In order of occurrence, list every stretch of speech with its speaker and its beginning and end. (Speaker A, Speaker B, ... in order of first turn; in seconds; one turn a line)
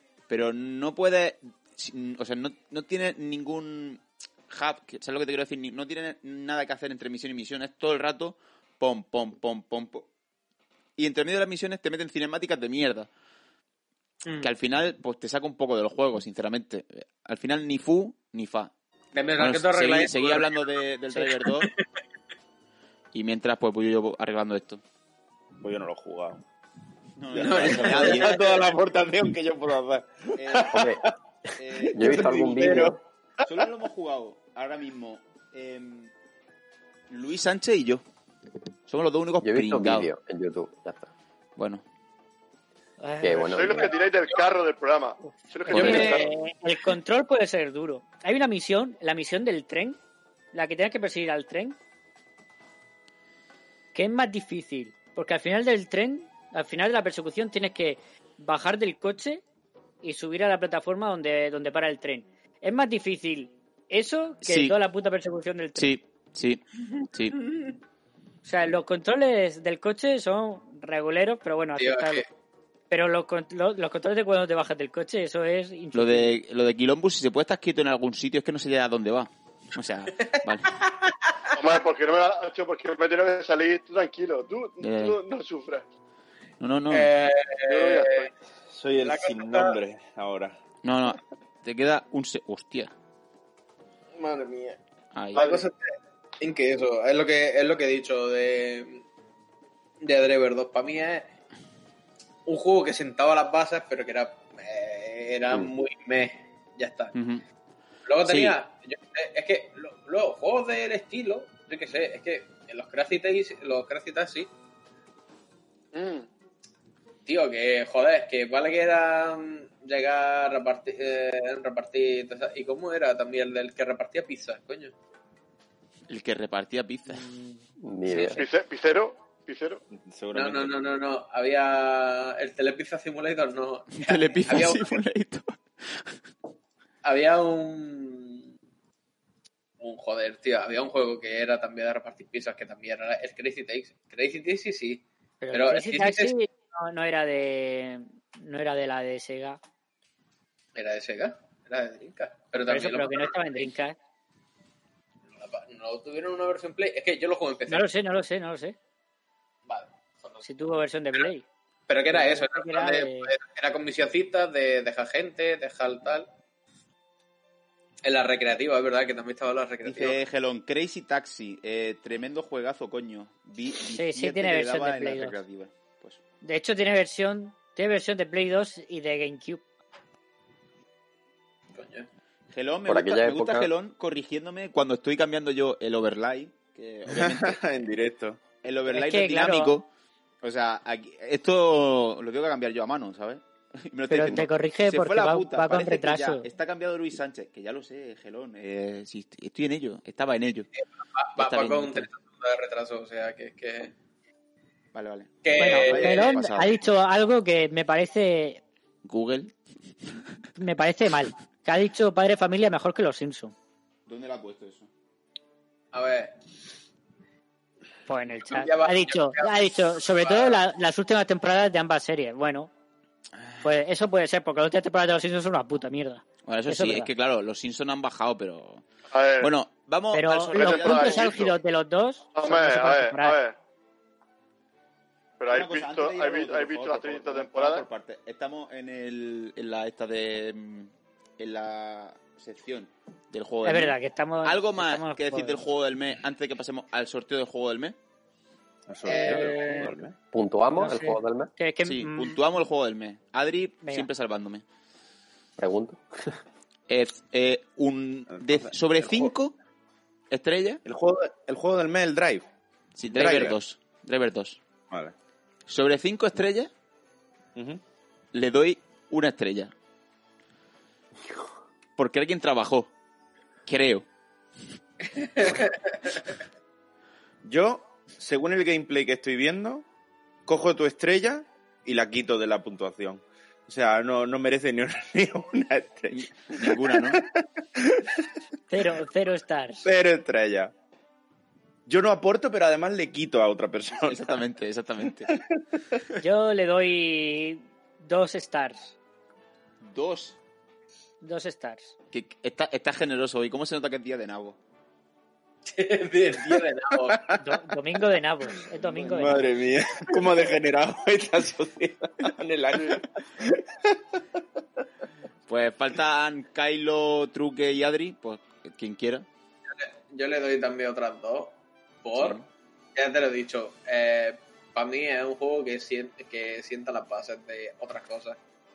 Speaker A: 0.3-10.1
Speaker A: 11.0-13.1
Speaker B: 14.2-14.5
Speaker A: 14.4-18.7
Speaker B: 19.1-20.6
Speaker A: 19.4-21.7
Speaker B: 21.1-21.7
Speaker A: 23.1-24.8
Speaker C: 25.6-26.4
Speaker A: 27.2-28.4
Speaker C: 27.3-30.8
Speaker B: 27.4-28.7
Speaker A: 30.4-30.9
Speaker D: 30.7-31.0
Speaker A: 31.6-32.8
Speaker D: 31.9-33.0
Speaker C: 32.0-33.0
Speaker A: 33.5-36.1
Speaker A: 37.1-38.0
Speaker A: 38.9-40.1
Speaker D: 39.4-41.1
Speaker A: 41.6-41.8
Speaker E: 43.0-43.9
Speaker D: 43.2-43.9
Speaker F: 43.5-46.3
Speaker E: 45.6-50.0
Speaker D: 45.7-46.1
Speaker E: 50.5-51.8
Speaker E: 53.9-59.4
Speaker E: 60.0-65.9
Speaker A: 64.4-64.8
Speaker A: 65.8-67.4
Speaker E: 68.5-72.2
Speaker B: 71.8-72.2
Speaker E: 72.9-76.4
Speaker A: 75.9-80.7
Speaker B: 80.3-80.9
Speaker F: 81.6-85.8
Speaker A: 84.8-85.2
Speaker A: 86.6-87.1
Speaker B: 86.9-88.3
Speaker F: 87.7-88.3
Speaker C: 88.7-90.6
Speaker B: 89.0-89.8
Speaker A: 90.8-92.9
Speaker B: 94.2-94.8
Speaker A: 95.1-95.5
Speaker B: 95.3-95.8
Speaker F: 95.3-95.6
Speaker B: 96.4-99.0
Speaker B: 100.0-101.3
Speaker B: 102.5-107.1
Speaker A: 107.1-107.4
Speaker B: 108.1-114.5
Speaker A: 108.2-108.6
Speaker F: 115.9-116.3
Speaker B: 117.3-124.9
Speaker A: 126.1-127.2
Speaker E: 127.1-127.6
Speaker D: 127.8-128.4
Speaker F: 128.4-129.8
Speaker C: 129.9-130.8
Speaker B: 130.3-135.0
Speaker A: 134.0-136.2
Speaker B: 137.0-138.5
Speaker B: 139.8-146.3
Speaker E: 145.4-149.6
Speaker B: 150.8-153.6
Speaker E: 152.6-154.0
Speaker B: 155.4-157.9
Speaker E: 157.7-158.8
Speaker B: 159.7-160.4
Speaker E: 160.4-161.4
Speaker B: 161.9-166.3
Speaker E: 162.1-163.3
Speaker B: 168.0-170.2
Speaker A: 169.8-176.2
Speaker E: 173.9-175.4
Speaker E: 176.4-179.6
Speaker B: 181.7-182.1
Speaker A: 182.5-187.6
Speaker D: 182.9-183.7
Speaker C: 187.1-188.6
Speaker A: 188.6-189.9
Speaker E: 188.9-189.8
Speaker A: 190.4-200.7
Speaker E: 194.1-196.5
Speaker B: 200.8-203.9
Speaker A: 201.4-202.1
Speaker A: 204.9-206.8
Speaker B: 205.4-206.4
Speaker E: 205.6-208.6
Speaker A: 209.0-209.5
Speaker E: 210.6-213.5
Speaker A: 214.1-214.9
Speaker B: 215.9-216.3
Speaker E: 218.1-222.7
Speaker B: 218.5-220.6
Speaker A: 223.4-223.7
Speaker E: 223.6-227.1
Speaker A: 226.4-228.8
Speaker F: 229.1-229.5
Speaker A: 229.4-231.4
Speaker E: 230.1-233.4
Speaker F: 230.5-231.5
Speaker F: 232.4-233.6
Speaker F: 235.4-237.8
Speaker A: 235.5-248.0
Speaker E: 243.6-245.6
Speaker C: 248.9-250.2
Speaker E: 249.1-249.9
Speaker B: 249.1-249.6
Speaker D: 250.3-251.5
Speaker E: 250.8-252.4
Speaker A: 251.8-254.6
Speaker E: 253.8-254.1
Speaker D: 255.6-256.0
Speaker A: 256.9-259.5
Speaker C: 258.3-259.3
Speaker A: 260.3-260.8
Speaker C: 260.9-262.4
Speaker A: 262.9-264.6
Speaker C: 263.1-263.6
Speaker A: 265.7-266.7
Speaker A: 268.3-269.7
Speaker A: 272.0-272.9
Speaker A: 273.6-274.1
Speaker B: 275.2-275.8
Speaker C: 277.4-279.8
Speaker C: 280.5-288.1
Speaker A: 286.1-287.2
Speaker E: 288.7-289.9
Speaker C: 289.8-290.7
Speaker C: 291.9-294.4
Speaker A: 294.0-295.3
Speaker C: 295.2-295.6
Speaker E: 296.2-299.0
Speaker A: 299.8-300.4
Speaker E: 301.2-301.9
Speaker A: 302.1-304.6
Speaker B: 305.7-307.2
Speaker E: 307.4-309.4
Speaker A: 308.8-309.5
Speaker C: 309.0-313.9
Speaker A: 315.5-319.3
Speaker B: 319.8-322.4
Speaker A: 322.1-322.4
Speaker B: 323.0-328.4